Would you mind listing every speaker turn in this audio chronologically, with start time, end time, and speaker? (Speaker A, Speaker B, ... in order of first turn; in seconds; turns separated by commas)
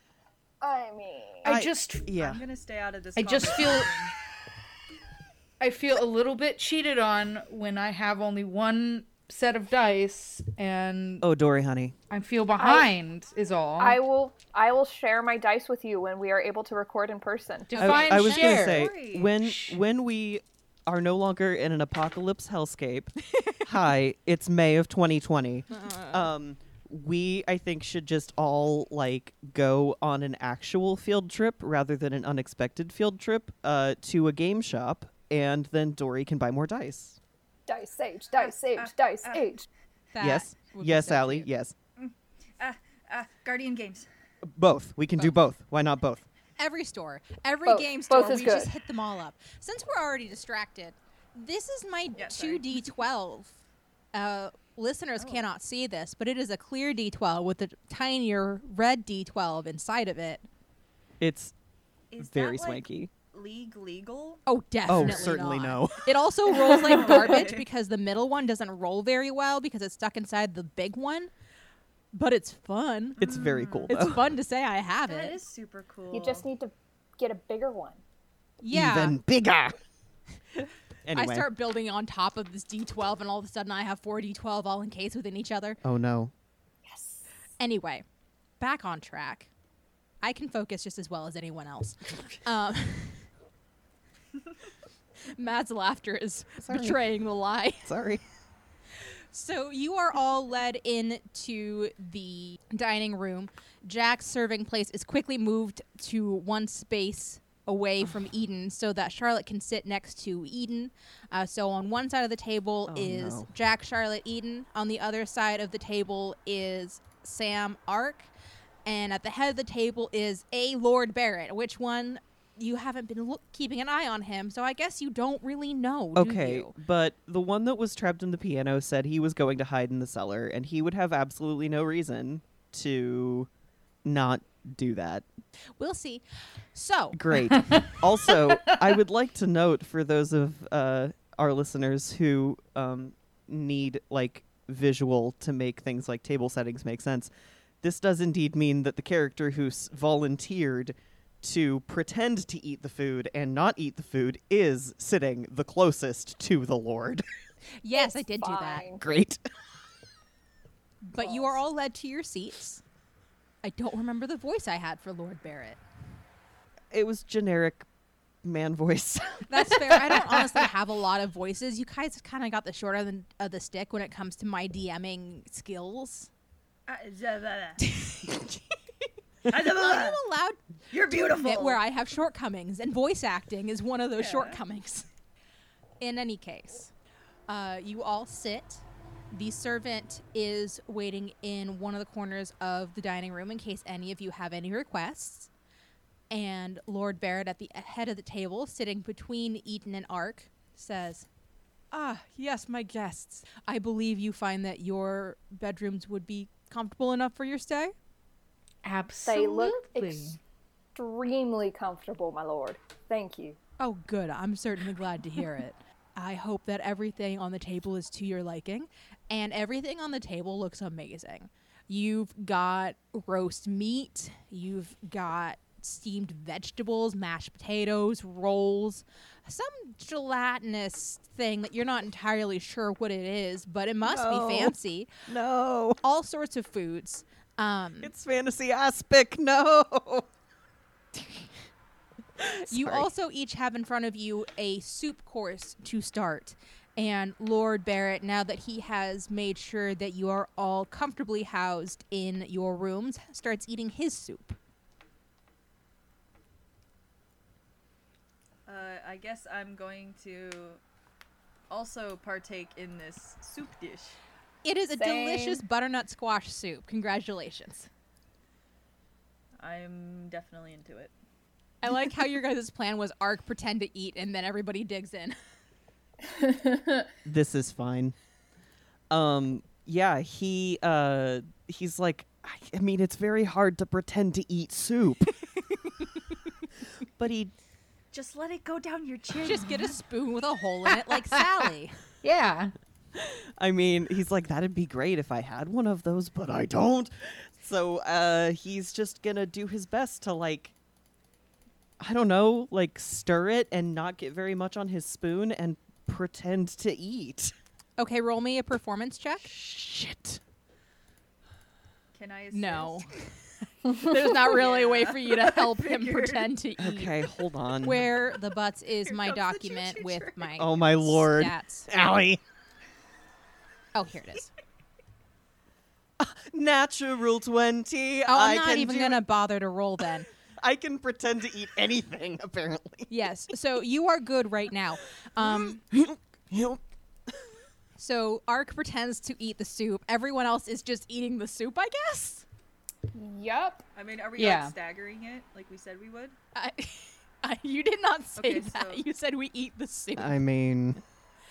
Speaker A: 0.6-1.5, Speaker B: 1.4-2.1, Speaker C: 1.4-2.4, Speaker D: 2.2-4.1, Speaker B: 3.1-3.9, Speaker B: 5.6-11.2, Speaker C: 11.2-11.9, Speaker B: 12.1-14.0, Speaker A: 12.6-12.9, Speaker A: 13.8-17.9, Speaker B: 17.7-19.8, Speaker E: 17.7-18.2, Speaker C: 17.8-37.2, Speaker D: 18.1-19.3, Speaker E: 25.7-26.3, Speaker A: 37.7-39.7, Speaker D: 38.4-39.5, Speaker E: 40.1-41.5, Speaker C: 40.2-41.7, Speaker D: 42.0-44.1, Speaker C: 44.4-46.2, Speaker E: 46.6-53.6, Speaker A: 47.6-48.7, Speaker D: 52.2-52.8, Speaker E: 54.1-60.5, Speaker D: 55.2-55.5, Speaker C: 61.2-61.5, Speaker D: 62.1-65.3, Speaker C: 62.2-63.1, Speaker E: 64.5-71.3, Speaker C: 64.9-66.1, Speaker D: 66.5-67.7, Speaker A: 66.7-67.3, Speaker E: 72.1-73.2, Speaker D: 73.2-73.9, Speaker C: 73.2-74.3, Speaker E: 73.9-75.4, Speaker D: 75.0-76.5, Speaker A: 76.1-78.0, Speaker E: 78.6-79.2, Speaker C: 78.7-79.8, Speaker C: 81.0-81.5, Speaker E: 81.1-85.8, Speaker C: 85.8-86.3, Speaker A: 86.8-87.2, Speaker E: 87.6-88.0, Speaker E: 88.6-89.5, Speaker E: 90.2-93.3, Speaker E: 95.3-97.9, Speaker C: 96.6-97.0, Speaker C: 97.8-98.2, Speaker E: 99.3-118.3, Speaker C: 112.9-113.5, Speaker E: 118.8-126.7, Speaker C: 126.1-133.5, Speaker C: 134.0-135.2, Speaker E: 135.8-136.2, Speaker E: 136.7-137.2, Speaker C: 137.1-147.3, Speaker B: 137.5-137.9, Speaker C: 147.8-157.2, Speaker E: 157.8-158.9, Speaker A: 157.9-159.0, Speaker C: 159.0-159.4, Speaker E: 161.1-162.8, Speaker A: 161.2-161.6, Speaker E: 163.6-165.8, Speaker C: 166.9-167.8, Speaker C: 168.4-170.0, Speaker E: 169.5-176.3, Speaker D: 176.9-177.9, Speaker E: 177.8-178.6, Speaker D: 179.4-180.2, Speaker E: 179.5-180.6, Speaker D: 180.9-181.8, Speaker E: 181.1-185.1, Speaker D: 184.2-184.6, Speaker E: 186.0-186.9, Speaker E: 187.5-195.5, Speaker E: 196.3-201.3, Speaker E: 201.9-207.9, Speaker B: 208.8-210.4, Speaker A: 209.2-210.4, Speaker A: 210.9-213.6, Speaker E: 213.8-235.1, Speaker C: 234.0-236.0, Speaker E: 236.0-238.1, Speaker C: 238.0-240.3, Speaker C: 242.4-243.1, Speaker E: 242.7-254.6, Speaker D: 258.6-260.8, Speaker D: 261.7-264.2, Speaker E: 264.6-267.9, Speaker A: 265.0-265.6, Speaker D: 269.6-271.1, Speaker E: 271.8-275.4, Speaker A: 276.3-277.1, Speaker C: 277.2-278.1, Speaker C: 279.1-285.3, Speaker E: 285.7-286.0, Speaker C: 287.2-287.5, Speaker D: 288.1-289.9, Speaker E: 289.4-292.0, Speaker B: 290.9-291.6, Speaker B: 292.2-292.7, Speaker C: 293.1-300.7, Speaker C: 302.0-307.5, Speaker E: 308.0-309.5, Speaker C: 309.4-310.4, Speaker D: 312.1-313.1, Speaker E: 312.5-313.2, Speaker E: 313.8-317.2, Speaker D: 314.2-316.5, Speaker C: 316.8-318.1, Speaker E: 317.8-321.9, Speaker D: 319.0-320.5, Speaker C: 320.6-322.4, Speaker E: 323.9-324.5, Speaker C: 326.2-329.2, Speaker E: 328.2-330.3, Speaker C: 330.6-333.1, Speaker E: 333.1-335.8, Speaker C: 335.4-336.8, Speaker E: 338.0-342.4, Speaker A: 343.1-343.8, Speaker D: 343.9-346.4, Speaker B: 344.4-344.7, Speaker E: 346.5-350.4, Speaker D: 348.4-349.0, Speaker C: 350.2-351.0